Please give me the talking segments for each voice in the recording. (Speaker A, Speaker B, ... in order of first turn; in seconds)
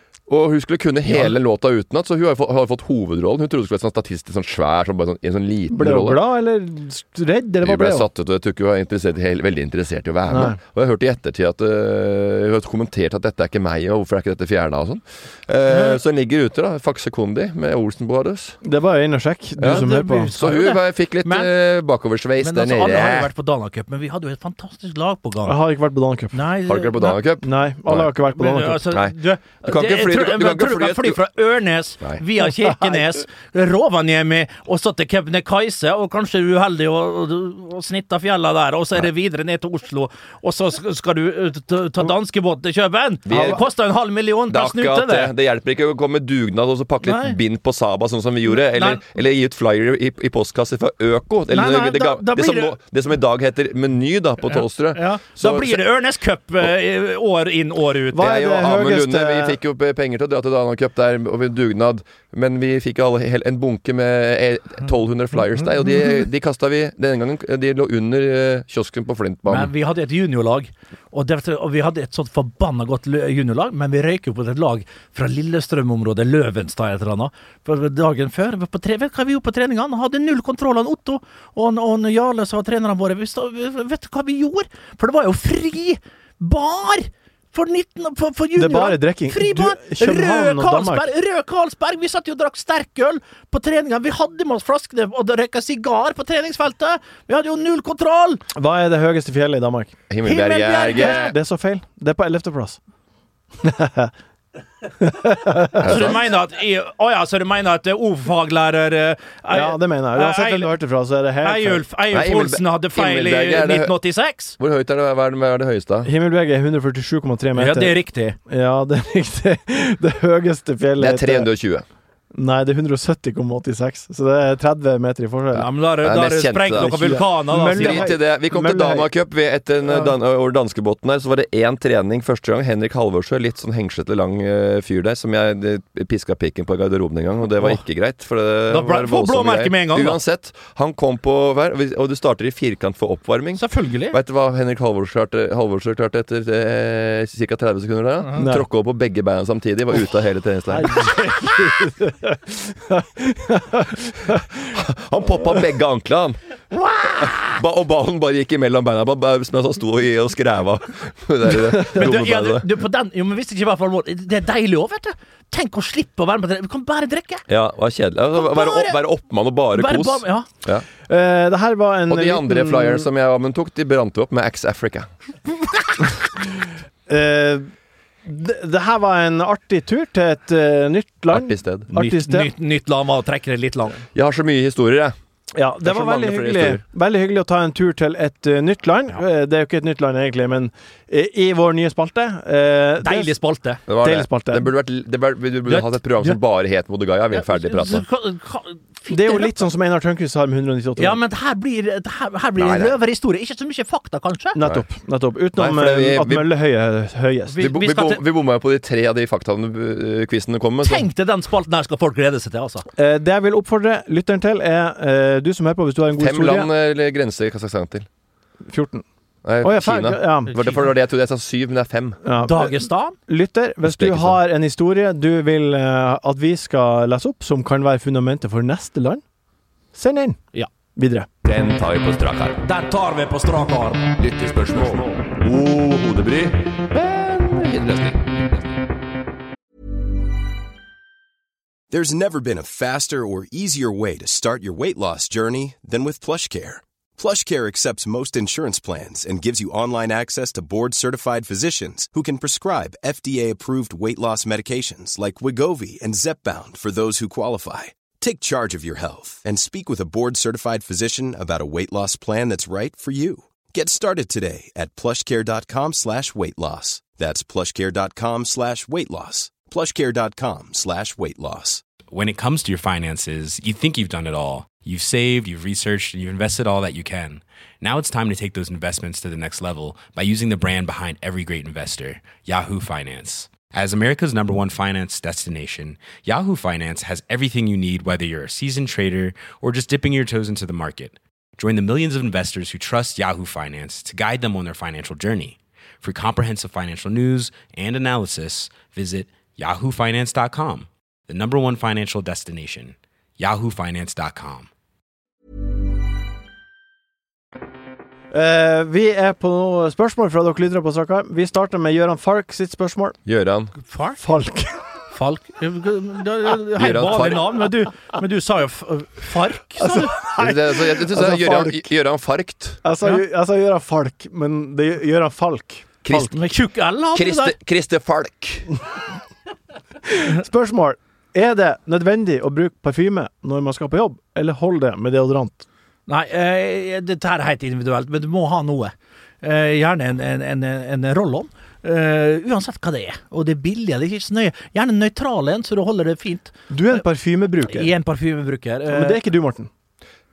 Speaker A: 0.3-6.2, 7.6-18.6, 19.6-23.3, 26.7-28.1, 28.9-31.2, 43.3-43.6, 44.5-55.8, 58.2-69.7, 100.1-101.3, 105.8-106.2, 112.1-114.0, 114.6-116.1, 121.0-121.8, 126.0-127.2, 127.7-151.0, 154.7-156.4, 157.0-162.7, 167.5-170.9, 172.1-175.1, 181.3-181.9, 184.1-185.2, 185.8-186.8, 193.9-198.0, 202.6-203.0, 205.5-206.5, 207.6-211.1, 216.2-218.1, 219.4-222.2, 223.8-224.4, 231.4-232.6, 234.2-238.7, 313.2-313.8, 316.8-317.7, 320.2-322.8, 326.0-326.4, 327.1-328.8
Speaker B: 5.7-8.1, 10.3-10.6, 18.6-20.3, 25.4-26.4, 27.4-28.9, 43.3-43.6, 58.1-59.6, 88.6-91.1, 98.5-100.0, 100.9-102.8, 103.6-104.1, 105.0-106.0, 109.5-111.8, 116.0-117.9, 118.5-121.5, 122.3-125.7, 126.8-129.1, 148.4-148.7, 150.7-154.6, 171.1-173.1, 177.1-177.7, 178.2-182.5, 185.5-193.3, 193.9-194.7, 199.1-201.2, 204.5-207.6, 213.0-216.7, 218.7-219.0, 219.6-220.5, 222.2-229.2, 229.9-231.3, 308.3-313.2, 314.2-314.8, 319.8-321.8, 322.8-326.3, 330.1-335.6, 346.7-347.9, 348.9-349.7
Speaker C: 15.7-16.0, 19.6-21.5, 22.4-25.6, 26.3-27.2, 28.3-45.3, 47.0-47.4, 48.5-49.0, 51.5-52.8, 54.5-58.3, 69.5-98.4, 100.3-101.3, 105.8-110.7, 111.4-114.5, 117.6-118.4, 125.5-128.1, 138.7-140.2, 143.6-144.2, 161.9-167.4, 168.4-169.0, 169.8-170.5, 181.9-184.0, 193.0-193.8, 195.7-196.4, 197.3-199.6, 201.0-204.6, 207.5-208.2, 210.8-212.9, 220.5-220.9, 222.4-223.2, 232.6-234.1, 313.8-314.2, 315.1-320.1, 326.3-327.5, 336.1-347.0, 347.6-349.2
Speaker D: 241.9-271.8
Speaker E: 272.1-304.7